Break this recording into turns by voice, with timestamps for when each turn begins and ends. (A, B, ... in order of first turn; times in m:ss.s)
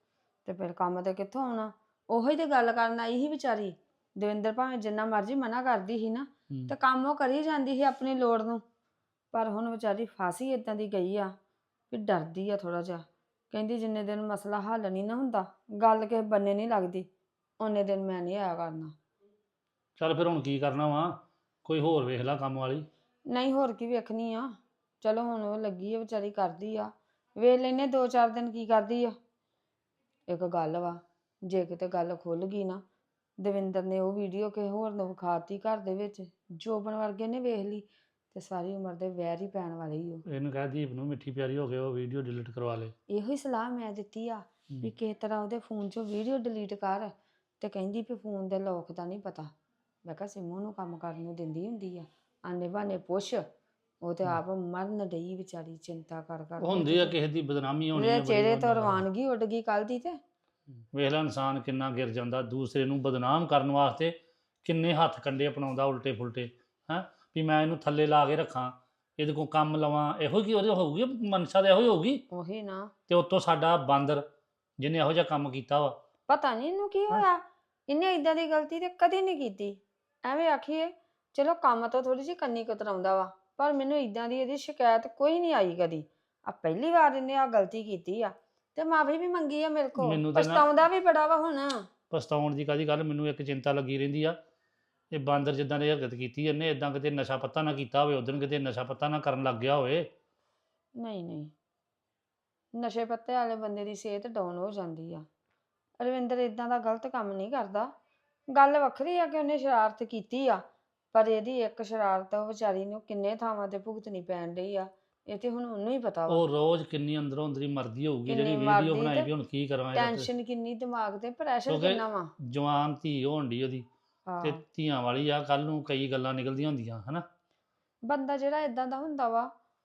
0:00.4-0:08.6 A
0:09.3-0:11.3 A
0:11.9-0:17.1 A
0:17.6-0:18.9 A
0:20.0-0:22.9 B
0:23.3-0:24.5 A
0:25.0-0:29.1 A
0:30.3-0:32.8 A
0:33.4-0:40.2 A
0:40.3-0:42.9 B
0:43.1-0:49.5 A
0:50.0-0:53.4 A
0:54.0-0:57.2 A
0:56.6-0:59.0 B
0:57.9-1:00.2 A
1:00.9-1:12.2 B
1:12.3-1:12.9 A
1:13.1-1:14.2 B
1:14.8-1:16.0 B
1:16.3-1:31.8 A
1:30.0-1:30.6 B
1:32.1-1:34.4 B
1:35.1-1:40.1 B
1:41.0-1:41.5 A
1:42.7-1:45.2 A
1:46.0-1:47.9 A
1:48.5-1:56.4 A
1:56.3-2:00.3 B
1:58.3-1:59.3 A
1:59.9-2:02.3 A
2:01.7-2:03.9 B
2:04.3-2:04.6 A
2:04.4-2:07.2 B
2:08.1-2:09.5 A